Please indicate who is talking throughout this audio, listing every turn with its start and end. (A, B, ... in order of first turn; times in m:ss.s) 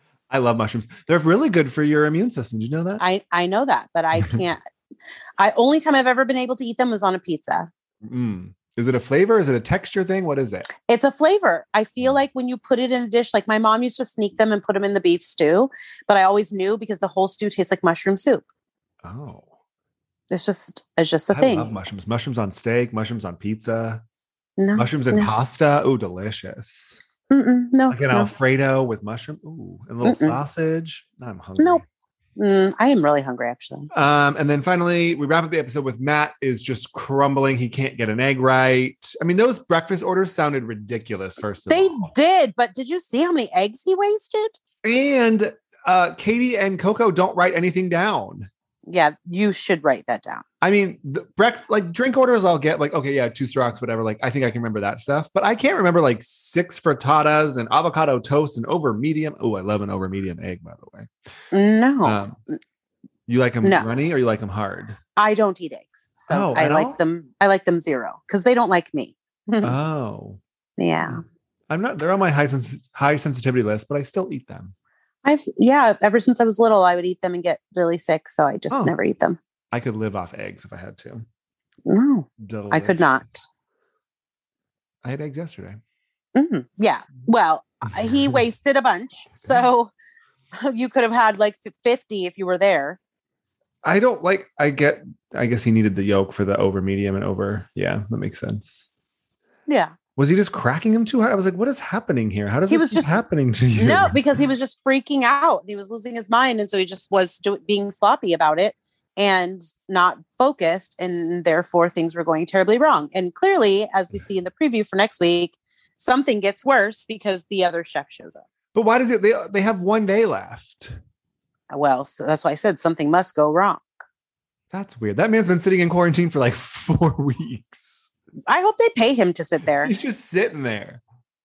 0:00.3-0:03.0 A
0:03.0-0:04.6 B
0:05.4-0:07.7 B
0:08.0-0:10.7 A
0:10.9-0:18.4 B
0:19.0-0:19.5 A
0:20.3-0:21.7 B
0:21.3-0:24.0 A
0:24.6-0:25.3 B
0:24.8-0:27.0 A
0:27.3-0:28.3 B
0:27.9-0:31.8 A
0:30.0-0:30.4 B
0:32.4-0:33.9 B
0:33.9-0:42.1 A
0:41.7-0:44.5 B
0:44.8-0:48.5 A
0:48.9-0:50.4 B
0:50.6-1:01.1 A
1:01.5-1:02.2 B
1:02.0-1:02.4 A
1:03.3-1:05.0 A
1:05.2-1:09.7 B
1:06.3-1:07.0 A
1:09.6-1:10.4 A
1:10.8-1:11.2 B
1:11.7-1:14.7 A
1:15.2-1:19.4 B
1:19.7-1:21.3 A
1:21.9-1:23.5 B
1:22.4-1:23.1 A
1:25.0-1:25.8 A
1:26.4-1:29.9 B
1:28.1-1:28.4 A
1:30.6-1:33.0 B
1:33.8-1:38.8 A
1:39.7-1:39.9 B
1:40.2-1:44.2 A
1:42.7-1:43.2 B
1:43.8-1:58.4 B
1:58.7-2:00.9 A
2:01.7-2:03.9 B
2:04.7-2:08.1 A
2:08.5-2:09.9 B
2:09.8-2:11.0 A